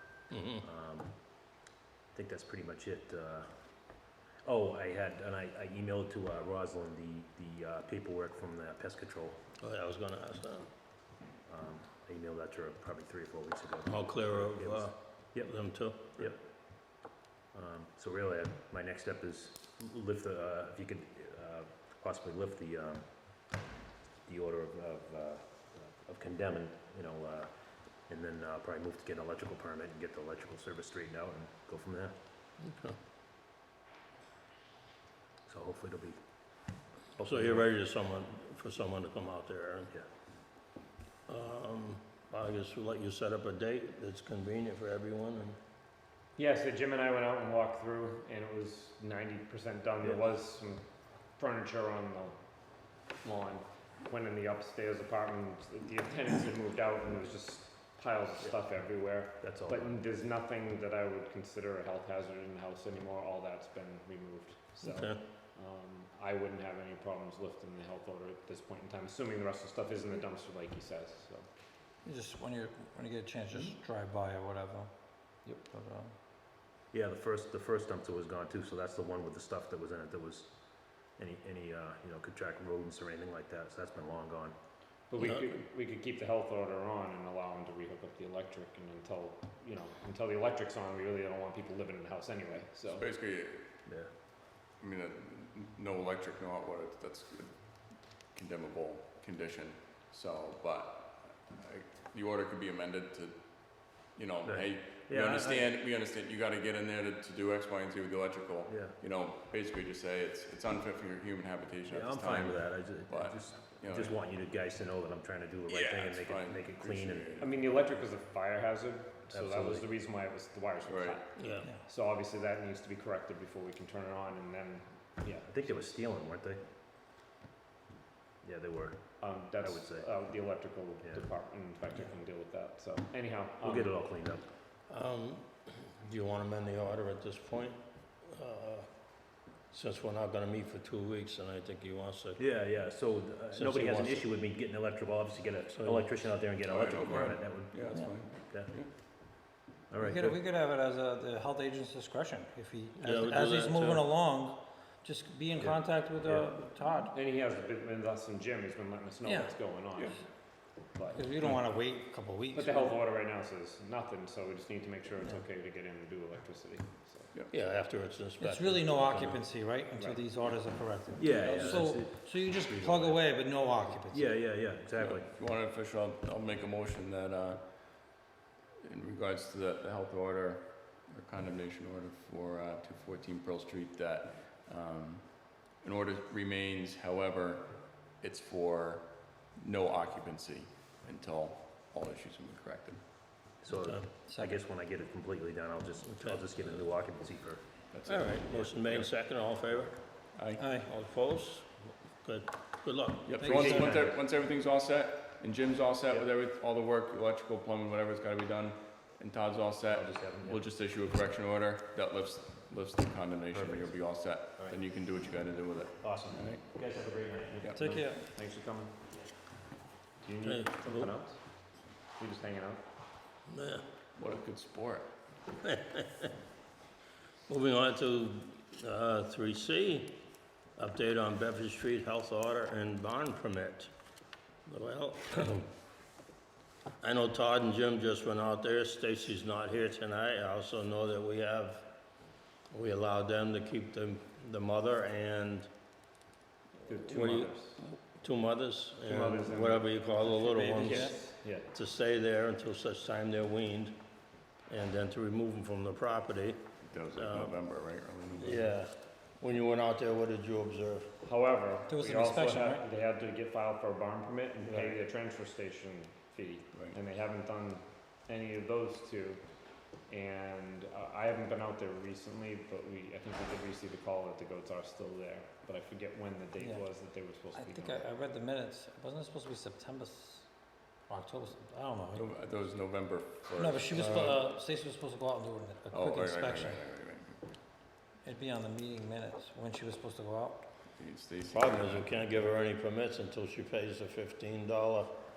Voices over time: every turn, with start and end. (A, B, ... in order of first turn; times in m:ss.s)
0:00.3-0:00.6 A
0:00.6-0:01.2 B
0:02.1-0:03.5 B
0:04.4-0:09.4 B
0:09.6-0:10.7 A
0:11.5-0:15.5 B
0:13.9-0:16.3 A
0:17.5-0:23.1 B
0:24.3-0:27.5 B
0:28.1-0:32.1 B
0:32.6-0:33.0 A
0:35.5-0:36.2 B
0:37.2-0:37.6 B
0:37.2-0:39.9 A
0:41.3-0:45.6 A
0:46.4-0:50.8 C
0:51.4-0:52.4 C
0:53.2-1:11.4 C
0:59.4-1:00.0 B
1:04.8-1:05.2 A
1:12.0-1:14.9 D
1:15.6-1:16.2 D
1:16.9-1:20.5 B
1:21.1-1:24.6 B
1:25.1-1:33.1 C
1:32.9-1:33.6 E
1:34.8-1:54.2 E
1:44.4-1:45.7 B
1:48.7-1:49.0 B
1:51.9-1:57.5 B
1:55.7-1:57.5 E
1:57.4-2:06.0 C
1:59.3-1:59.9 B
2:00.8-2:01.2 E
2:01.4-2:01.7 A
2:05.5-2:06.6 B
2:08.4-2:10.1 B
2:09.2-2:13.9 C
2:13.6-2:14.4 B
2:14.9-2:18.9 A
2:19.7-2:22.4 A
2:22.4-2:28.7 B
2:23.5-2:24.3 A
2:25.7-2:26.1 A
2:26.7-2:28.9 E
2:29.9-2:30.4 B
2:30.0-2:37.1 D
2:33.0-2:34.0 A
2:35.6-2:36.6 B
2:37.1-2:41.2 C
2:39.2-2:39.6 D
2:41.1-2:43.0 D
2:42.5-2:47.3 C
2:47.5-2:49.4 A
2:48.4-2:54.3 D
2:49.9-2:50.2 C
2:51.2-2:53.2 B
2:53.9-2:55.3 B
2:55.0-2:58.2 E
2:58.8-3:13.0 E
3:13.6-3:17.6 B
3:14.2-3:14.6 D
3:17.9-3:19.1 E
3:18.0-3:20.0 A
3:20.4-3:20.6 E
3:20.6-3:20.9 D
3:20.8-3:23.8 A
3:23.2-3:36.6 E
3:23.4-3:24.0 D
3:23.5-3:24.1 B
3:29.9-3:30.6 B
3:33.5-3:33.9 B
3:36.0-3:37.8 B
3:37.6-3:38.9 C
3:37.8-3:38.3 D
3:40.2-3:42.8 C
3:40.4-3:41.1 A
3:43.5-3:43.8 A
3:44.2-3:45.1 E
3:45.6-3:46.3 A
3:47.5-3:50.2 A
3:50.8-3:53.9 A
3:54.7-3:55.7 A
3:57.0-4:01.9 A
4:02.7-4:05.7 A
4:06.8-4:07.9 C
4:07.0-4:11.2 A
4:09.0-4:09.9 C
4:10.2-4:11.2 D
4:10.7-4:11.7 C
4:11.7-4:14.0 A
4:14.7-4:16.6 A
4:16.9-4:18.7 E
4:17.1-4:17.6 A
4:18.4-4:21.1 A
4:21.2-4:29.5 C
4:21.9-4:22.8 D
4:30.0-4:38.1 C
4:36.6-4:36.9 D
4:37.5-4:40.5 D
4:41.1-4:42.2 D
4:42.1-4:44.4 E
4:43.6-4:46.8 D
4:43.9-4:44.4 A
4:45.9-4:47.6 E
4:48.2-4:50.7 D
4:50.9-4:52.1 E
4:51.5-4:55.2 A